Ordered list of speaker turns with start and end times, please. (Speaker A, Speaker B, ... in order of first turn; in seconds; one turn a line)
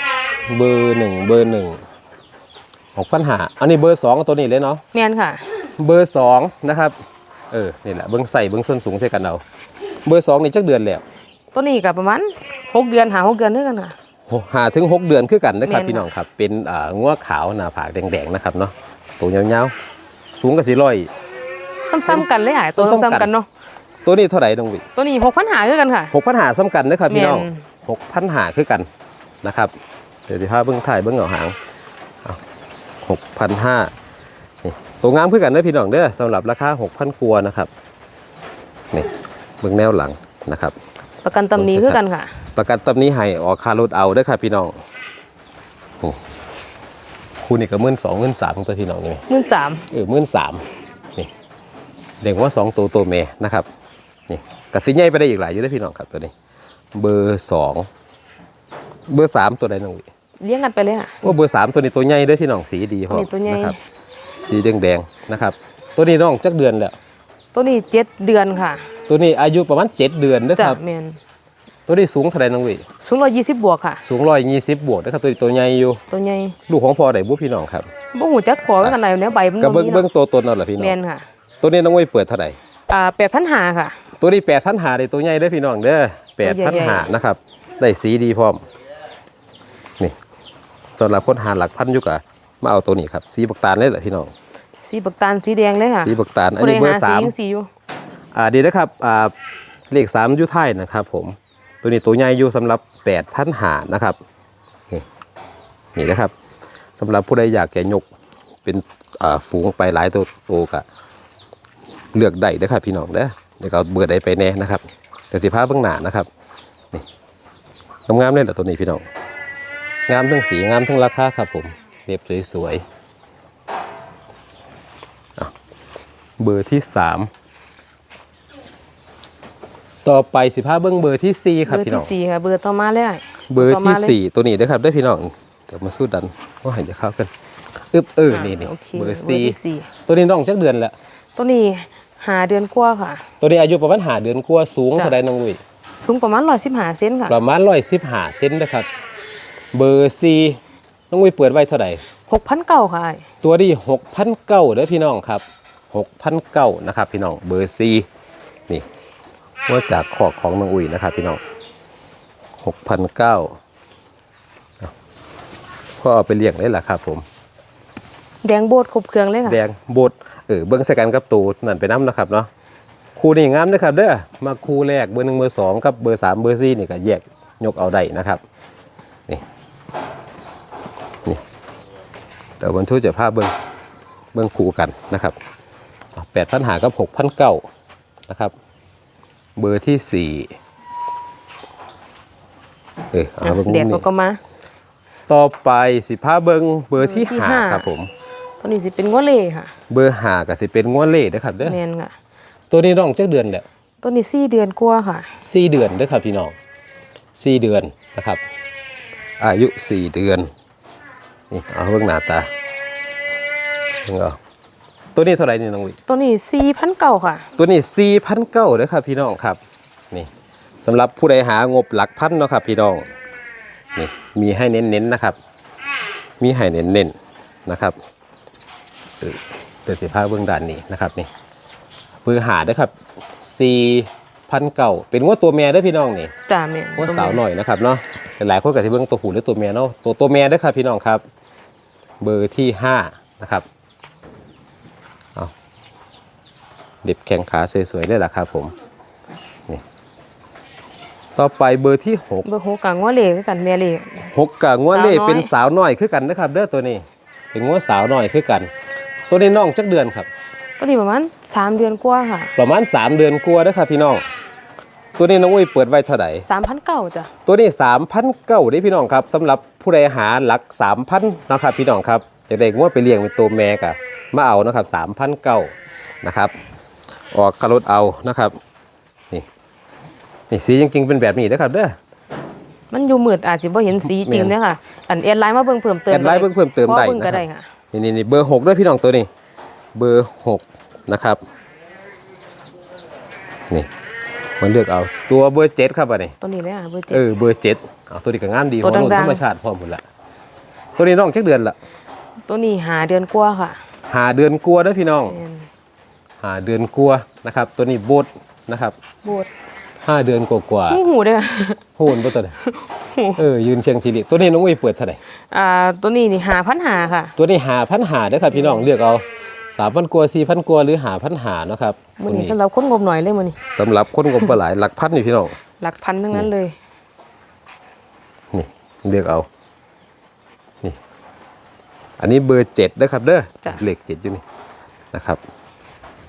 Speaker A: 0.5-1.8
Speaker A: 2.9-4.8
Speaker B: 4.9-5.4
Speaker A: 5.8-6.9
Speaker A: 7.5-9.4
Speaker A: 10.0-11.0
Speaker B: 11.5-13.9
Speaker A: 14.3-19.7
Speaker B: 15.6-16.1
Speaker A: 20.4-21.1
Speaker B: 21.9-23.5
Speaker A: 22.8-23.3
Speaker A: 24.0-24.8
Speaker B: 24.9-26.1
Speaker A: 26.1-28.9
Speaker B: 27.1-27.6
Speaker A: 29.4-29.7
Speaker A: 30.3-31.6
Speaker A: 33.0-33.9
Speaker A: 34.6-37.7
Speaker A: 39.6-40.7
Speaker B: 41.2-42.4
Speaker A: 41.5-42.0
Speaker A: 42.5-44.7
Speaker A: 47.4-49.2
Speaker B: 49.3-49.9
Speaker A: 49.9-51.3
Speaker A: 52.2-53.7
Speaker A: 54.3-56.3
Speaker A: 56.9-57.9
Speaker A: 59.1-60.1
Speaker B: 60.4-61.3
Speaker A: 61.2-63.7
Speaker B: 63.1-63.8
Speaker A: 64.4-67.0
Speaker B: 67.5-68.9
Speaker A: 69.1-70.8
Speaker B: 70.5-71.2
Speaker A: 71.9-72.8
Speaker B: 73.0-74.0
Speaker A: 74.0-76.0
Speaker B: 76.1-76.5
Speaker A: 76.7-77.9
Speaker B: 78.1-80.0
Speaker A: 79.6-81.0
Speaker B: 80.8-81.2
Speaker A: 81.6-82.6
Speaker B: 82.9-84.0
Speaker A: 84.2-88.6
Speaker B: 86.4-87.1
Speaker A: 90.9-94.3
Speaker B: 94.8-97.7
Speaker A: 96.0-97.3
Speaker A: 98.3-99.3
Speaker A: 99.9-104.2
Speaker A: 106.0-106.3
Speaker A: 107.0-108.0
Speaker A: 108.6-110.8
Speaker A: 112.1-116.3
Speaker A: 118.1-119.0
Speaker A: 120.1-122.8
Speaker A: 126.4-127.3
Speaker A: 130.0-132.1
Speaker B: 131.7-134.2
Speaker A: 133.5-137.3
Speaker A: 137.9-140.9
Speaker B: 138.3-139.9
Speaker B: 141.3-143.2
Speaker A: 143.4-145.6
Speaker B: 146.0-147.3
Speaker A: 147.3-148.9
Speaker A: 149.7-150.6
Speaker A: 151.1-152.0
Speaker B: 152.3-153.2
Speaker A: 153.4-158.1
Speaker A: 159.7-161.4
Speaker A: 162.6-163.6
Speaker A: 166.0-167.2
Speaker B: 168.4-169.6
Speaker A: 169.5-172.5
Speaker A: 173.2-178.4
Speaker A: 182.6-183.5
Speaker A: 184.3-185.3
Speaker A: 186.1-187.6
Speaker A: 188.3-188.5
Speaker A: 189.6-190.5
Speaker A: 193.1-194.1
Speaker B: 193.4-194.4
Speaker A: 195.3-198.1
Speaker B: 197.0-197.9
Speaker B: 198.6-199.7
Speaker A: 199.9-201.8
Speaker B: 201.6-202.1
Speaker A: 202.7-203.7
Speaker B: 204.0-205.3
Speaker A: 205.4-206.5
Speaker A: 207.3-208.4
Speaker A: 209.4-210.5
Speaker A: 211.5-212.5
Speaker A: 214.0-214.4
Speaker A: 215.1-216.0
Speaker B: 216.1-217.5
Speaker A: 217.6-219.6
Speaker A: 220.8-223.1
Speaker A: 223.9-225.4
Speaker A: 226.4-227.1
Speaker A: 227.7-227.9
Speaker A: 229.2-231.3
Speaker A: 232.2-236.3
Speaker B: 236.5-237.4
Speaker A: 237.0-241.2
Speaker A: 242.2-243.7
Speaker A: 247.0-248.7
Speaker A: 251.3-252.4
Speaker B: 252.4-254.2
Speaker A: 254.3-258.7
Speaker B: 254.9-255.5
Speaker A: 259.3-260.3
Speaker B: 260.8-262.5
Speaker A: 262.6-264.2
Speaker A: 265.1-266.4
Speaker B: 266.4-267.3
Speaker A: 267.4-275.7
Speaker A: 276.2-276.5
Speaker A: 277.3-278.6
Speaker A: 280.5-281.9
Speaker B: 282.9-287.7
Speaker A: 284.0-284.5
Speaker A: 286.1-289.3
Speaker A: 289.9-291.4
Speaker A: 294.6-296.3
Speaker B: 296.4-297.2
Speaker A: 297.1-300.0
Speaker B: 298.8-299.4
Speaker A: 301.0-301.8
Speaker B: 302.5-303.8
Speaker A: 304.1-305.4
Speaker B: 305.3-305.6
Speaker A: 306.4-308.9
Speaker B: 309.2-309.5
Speaker A: 310.0-311.0
Speaker B: 310.9-313.4
Speaker A: 312.0-312.6
Speaker A: 313.4-315.2
Speaker B: 315.5-317.3
Speaker A: 317.4-322.6
Speaker B: 318.6-318.8
Speaker B: 322.2-323.6
Speaker A: 323.8-325.6
Speaker B: 325.8-326.7
Speaker A: 328.5-329.5
Speaker A: 332.2-334.4
Speaker A: 335.1-335.4